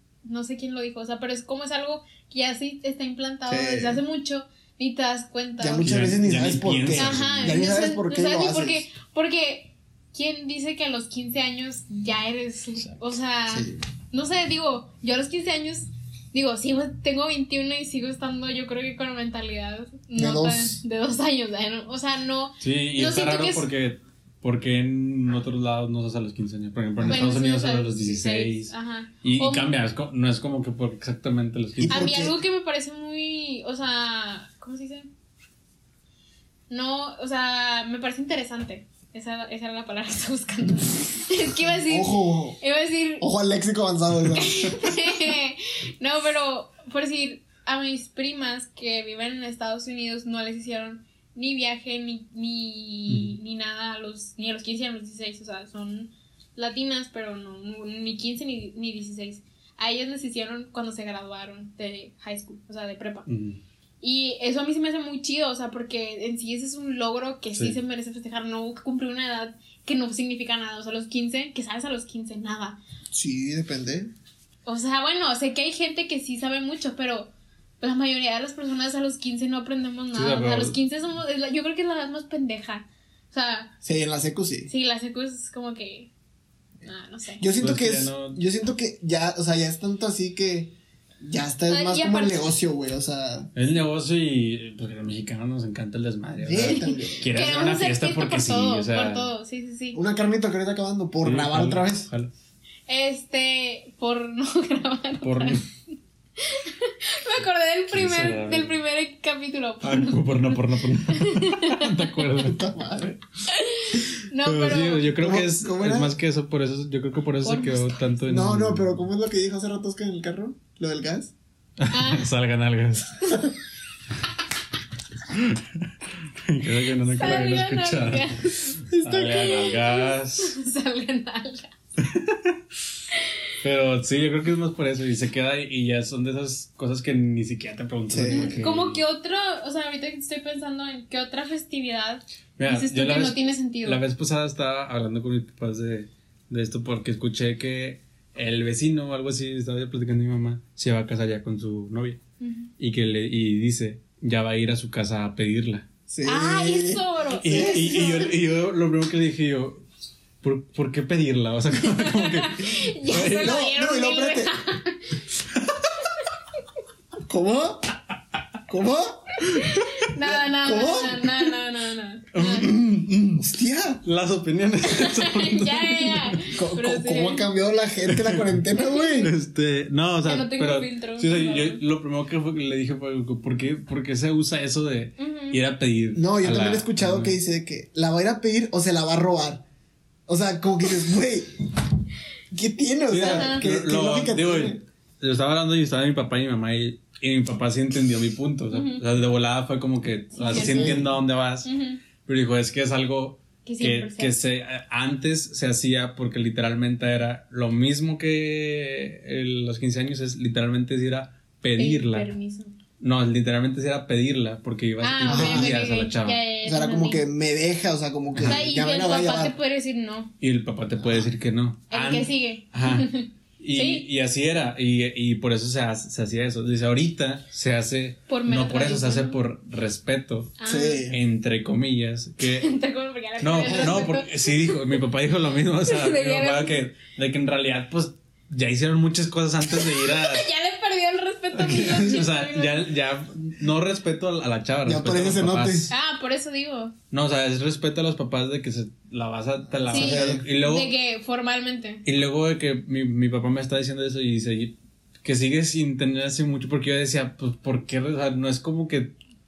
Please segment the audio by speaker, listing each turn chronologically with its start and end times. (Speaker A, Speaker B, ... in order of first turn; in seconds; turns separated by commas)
Speaker A: 0.2-5.9, Speaker B: 3.5-4.0, Speaker B: 5.6-8.9, Speaker C: 5.8-7.6, Speaker A: 7.0-23.7, Speaker B: 13.5-13.8, Speaker B: 20.2-20.8, Speaker C: 22.6-32.1, Speaker B: 27.0-27.3, Speaker A: 27.1-29.8, Speaker B: 31.8-32.4, Speaker A: 31.9-35.1, Speaker A: 36.7-43.3, Speaker B: 41.7-42.6, Speaker B: 43.2-45.0, Speaker A: 44.4-63.3, Speaker C: 63.3-63.6, Speaker A: 64.0-72.8, Speaker B: 73.1-74.1, Speaker A: 74.7-83.7, Speaker C: 80.1-80.8, Speaker B: 83.8-84.7, Speaker A: 84.7-86.1, Speaker A: 86.8-87.5, Speaker B: 87.4-93.5, Speaker C: 87.6-88.4, Speaker A: 91.7-92.5, Speaker C: 93.5-99.3, Speaker B: 96.4-97.3, Speaker A: 96.6-100.0, Speaker B: 99.9-102.1, Speaker C: 101.2-102.3, Speaker A: 102.9-105.6, Speaker C: 105.2-105.6, Speaker A: 106.4-110.6, Speaker C: 107.9-108.7, Speaker C: 109.8-112.7, Speaker A: 111.1-112.2, Speaker B: 112.4-113.2, Speaker A: 113.5-115.1, Speaker C: 114.4-119.0, Speaker B: 115.2-116.2, Speaker A: 117.4-118.0, Speaker B: 118.3-121.3, Speaker C: 121.8-123.4, Speaker A: 121.9-122.3, Speaker C: 125.3-125.9, Speaker C: 126.4-130.6, Speaker A: 127.1-131.7, Speaker B: 129.0-129.4, Speaker C: 132.0-132.6, Speaker C: 133.6-139.0, Speaker B: 138.1-138.6, Speaker A: 138.3-144.0, Speaker C: 142.6-152.2, Speaker A: 152.4-152.7, Speaker C: 152.8-155.9, Speaker B: 156.1-158.3, Speaker A: 156.2-158.2, Speaker C: 157.4-159.8, Speaker C: 160.4-163.6, Speaker A: 161.8-165.2, Speaker B: 163.3-164.5, Speaker B: 167.2-167.9, Speaker B: 168.7-169.5, Speaker A: 169.5-172.7, Speaker B: 170.2-171.4, Speaker C: 172.3-173.4, Speaker B: 173.4-174.0, Speaker C: 174.0-176.4, Speaker A: 174.9-177.4, Speaker B: 176.5-179.3, Speaker C: 178.1-178.6, Speaker A: 178.8-179.2, Speaker C: 179.2-187.4, Speaker A: 180.2-181.8, Speaker A: 185.2-185.6, Speaker B: 186.1-189.6, Speaker B: 190.3-191.6, Speaker B: 192.5-194.8, Speaker C: 193.1-201.7, Speaker A: 193.2-193.6, Speaker A: 198.7-199.0, Speaker A: 200.4-201.1, Speaker B: 200.5-201.0, Speaker A: 201.6-202.0, Speaker C: 202.2-212.3, Speaker A: 203.7-204.3, Speaker A: 211.8-212.7, Speaker C: 213.0-216.4, Speaker A: 215.0-217.2, Speaker B: 215.3-215.8, Speaker B: 216.6-219.6, Speaker C: 218.3-218.6, Speaker A: 218.5-220.3, Speaker C: 220.4-232.7, Speaker B: 221.0-221.3, Speaker A: 221.9-224.1, Speaker A: 228.3-229.4, Speaker A: 230.6-231.1, Speaker B: 230.7-231.2, Speaker A: 232.6-234.8, Speaker C: 233.4-240.5, Speaker B: 233.7-234.0, Speaker A: 235.8-236.8, Speaker A: 239.7-242.8, Speaker C: 241.5-245.9, Speaker B: 244.8-245.9, Speaker A: 245.9-246.9, Speaker C: 247.1-250.9, Speaker B: 249.7-250.4, Speaker A: 249.9-252.0, Speaker C: 252.1-259.2